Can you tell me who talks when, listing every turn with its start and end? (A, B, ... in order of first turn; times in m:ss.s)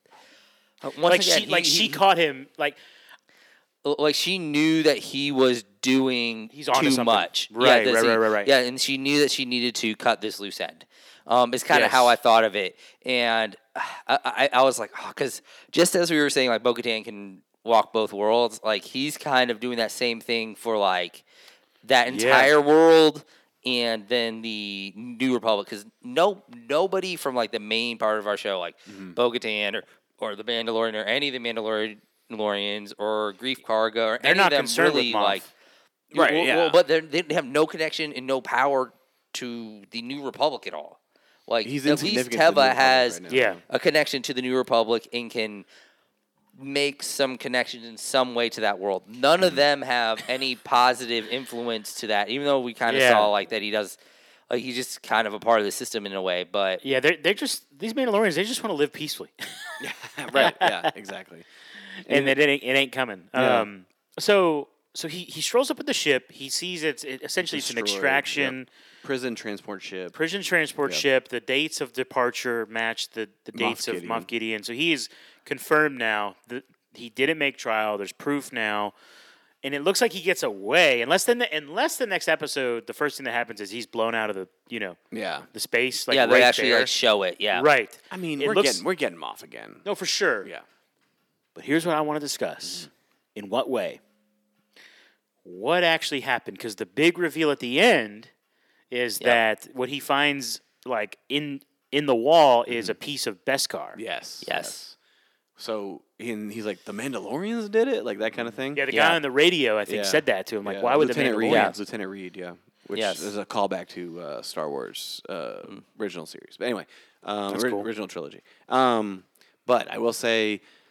0:00.8-0:02.0 A
0:01.1-0:02.8 B
0:03.8-0:21.2 A
0:06.5-0:08.5 B
0:11.7-0:12.1 B
0:21.8-0:35.5 A
0:22.1-0:22.5 B
0:28.9-0:29.2 C
0:34.2-0:35.5 B
0:36.1-0:36.8 C
0:36.1-0:45.7 A
0:41.6-0:43.6 C
0:43.3-0:43.6 B
0:46.6-0:54.0 A
0:52.9-0:53.3 B
0:54.5-0:56.8 A
0:56.8-0:59.8 B
0:59.8-1:01.5 C
1:00.3-1:00.9 B
1:02.0-1:08.7 B
1:02.0-1:02.4 C
1:03.4-1:03.7 C
1:07.5-1:10.2 C
1:10.1-1:18.9 B
1:13.5-1:14.3 C
1:19.6-1:25.0 B
1:25.1-1:25.5 C
1:25.5-1:26.9 B
1:26.1-1:27.7 A
1:27.5-1:28.8 B
1:28.1-1:29.8 C
1:29.8-1:30.5 B
1:31.6-1:34.0 B
1:35.4-1:38.3 B
1:38.9-1:44.0 B
1:44.0-1:45.0 C
1:44.4-1:44.8 A
1:45.6-1:48.9 C
1:48.7-1:51.8 B
1:48.9-1:49.2 A
1:49.9-2:00.6 C
1:51.5-1:51.7 A
1:53.0-1:53.3 A
1:57.5-1:57.9 B